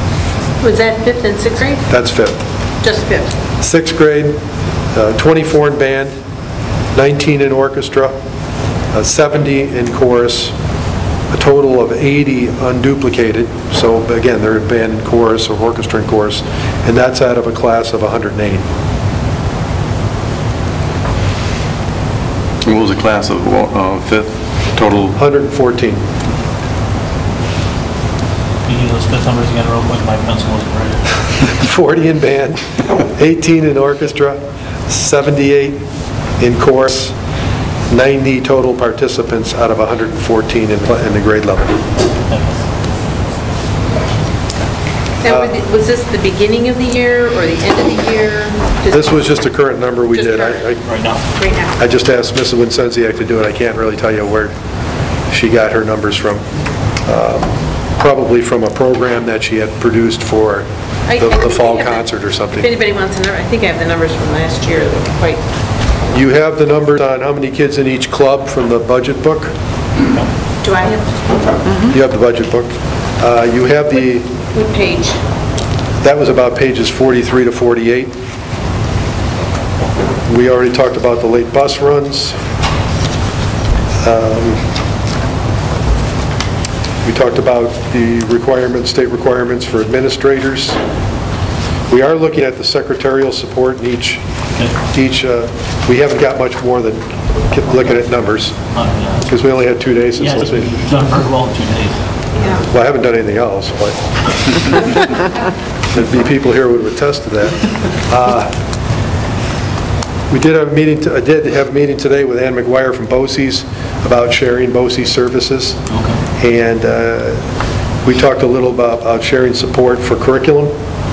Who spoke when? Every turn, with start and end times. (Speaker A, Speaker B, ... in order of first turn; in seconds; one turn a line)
Speaker A: 0.6-1.8
Speaker B: 1.9-2.4
Speaker A: 2.8-3.3
Speaker B: 3.6-4.4
Speaker B: 4.9-6.1
Speaker B: 6.9-8.1
Speaker B: 8.9-10.5
Speaker B: 11.3-18.7
Speaker C: 22.6-25.1
Speaker B: 25.1-26.1
Speaker D: 28.6-31.2
Speaker B: 31.4-35.8
Speaker B: 36.4-37.1
Speaker B: 37.9-41.8
Speaker D: 42.3-42.6
Speaker A: 45.2-49.3
Speaker B: 45.2-45.5
Speaker B: 48.9-50.8
Speaker A: 50.1-50.6
Speaker D: 50.8-51.2
Speaker A: 51.3-51.8
Speaker B: 51.8-54.5
Speaker B: 55.3-56.4
Speaker B: 57.0-62.7
Speaker A: 61.1-62.0
Speaker A: 62.6-65.4
Speaker B: 66.1-69.5
Speaker A: 70.6-71.9
Speaker B: 71.8-74.3
Speaker A: 74.5-75.2
Speaker B: 76.0-78.2
Speaker B: 80.3-82.3
Speaker B: 84.0-84.6
Speaker B: 87.0-90.8
Speaker B: 91.9-94.2
Speaker B: 94.9-98.5
Speaker D: 98.7-99.3
Speaker B: 99.3-100.7
Speaker D: 100.2-102.0
Speaker B: 102.5-105.1
Speaker B: 105.9-108.5
Speaker B: 110.3-115.8
Speaker D: 115.9-116.2
Speaker B: 116.4-117.4
Speaker B: 118.0-120.7